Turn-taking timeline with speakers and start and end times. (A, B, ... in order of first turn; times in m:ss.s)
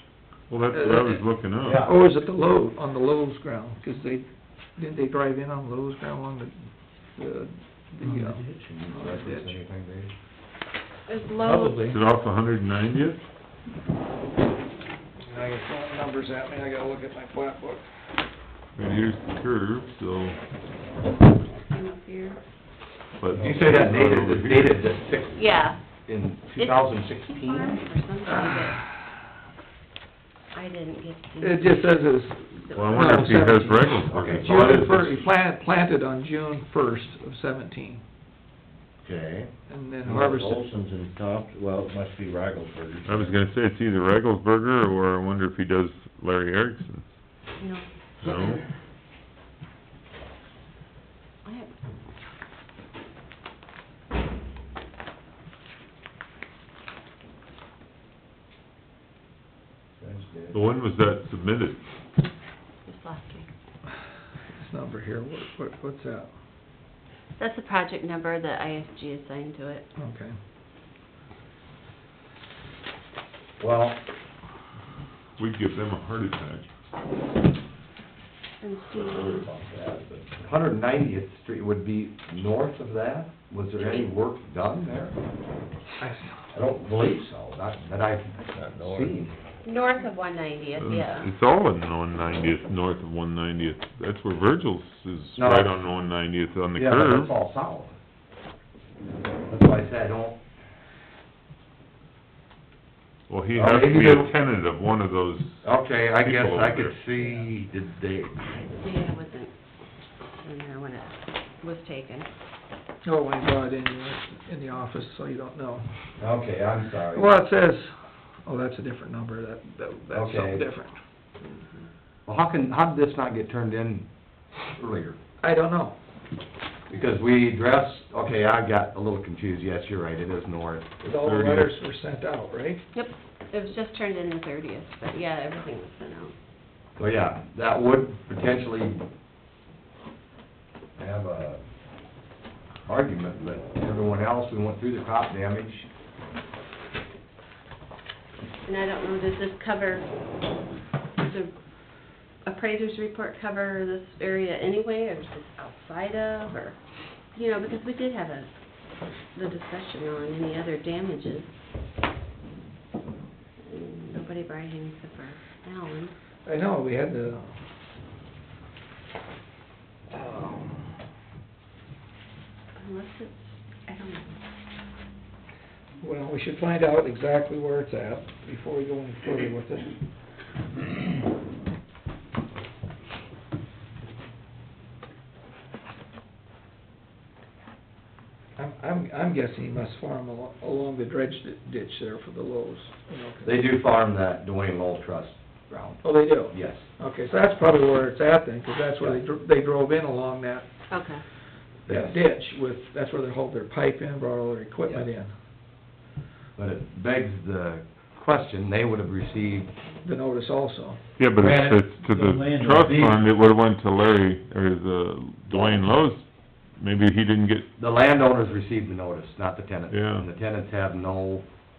0:00.5-0:01.9 A
0:00.7-0:01.2 B
0:01.6-0:02.0 C
0:01.8-0:09.5 B
0:08.6-0:10.1 C
0:11.1-0:11.9 D
0:11.6-0:11.9 E
0:11.8-0:13.2 A
0:15.3-0:17.9 B
0:18.8-0:20.4 A
0:21.6-0:22.4 D
0:23.2-0:24.8 A
0:23.3-0:27.8 C
0:25.3-0:25.8 D
0:26.6-0:28.8 D
0:28.4-0:29.1 B
0:30.5-0:32.0 D
0:31.4-0:38.0 B
0:32.6-0:33.2 D
0:32.7-0:35.2 A
0:34.1-0:34.8 C
0:39.0-0:39.5 C
0:39.7-0:40.6 B
0:40.0-0:43.4 E
0:43.0-0:47.1 A
0:48.2-0:48.6 A
0:51.4-0:51.7 D
1:00.0-1:00.6 C
1:00.5-1:01.8 A
1:02.9-1:03.5 D
1:04.5-1:06.3 B
1:07.4-1:09.9 D
1:10.0-1:10.3 B
1:13.6-1:14.0 C
1:15.4-1:16.7 A
1:18.6-1:19.5 D
1:19.2-1:25.2 C
1:23.8-1:24.1 D
1:26.0-1:26.4 B
1:26.5-1:29.3 C
1:28.5-1:29.2 E
1:29.6-1:31.3 D
1:30.8-1:37.3 A
1:35.4-1:35.8 C
1:36.8-1:38.0 C
1:39.5-1:40.4 C
1:43.3-1:45.6 A
1:43.6-1:44.3 C
1:45.6-1:48.6 C
1:46.2-1:47.0 A
1:48.8-1:49.5 D
1:50.4-1:52.3 D
1:53.0-1:56.0 B
1:56.2-1:57.3 C
1:57.1-2:01.0 B
2:00.1-2:00.6 C
2:01.4-2:01.8 D
2:02.3-2:04.1 C
2:04.6-2:05.2 C
2:05.4-2:06.0 B
2:06.9-2:10.9 C
2:11.0-2:12.8 B
2:11.2-2:11.7 A
2:12.9-2:16.3 D
2:17.0-2:19.0 C
2:21.0-2:21.6 C
2:22.9-2:25.9 C
2:28.6-2:30.1 D
2:31.2-2:31.5 D
2:32.4-2:36.8 D
2:37.3-2:38.5 D
2:39.3-2:41.5 D
2:43.6-2:46.2 D
2:46.4-2:47.5 B
2:50.1-2:50.9 B
2:52.8-2:54.4 D
2:56.0-3:00.0 B
3:08.6-3:13.5 B
3:13.4-3:16.9 C
3:16.0-3:20.7 B
3:20.9-3:21.2 D
3:21.9-3:25.3 B
3:21.9-3:22.2 C
3:26.6-3:29.7 C
3:30.0-3:31.0 B
3:31.2-3:37.7 A
3:31.4-3:33.2 E
3:35.5-3:35.8 C
3:37.8-3:41.5 C
3:39.9-3:40.3 A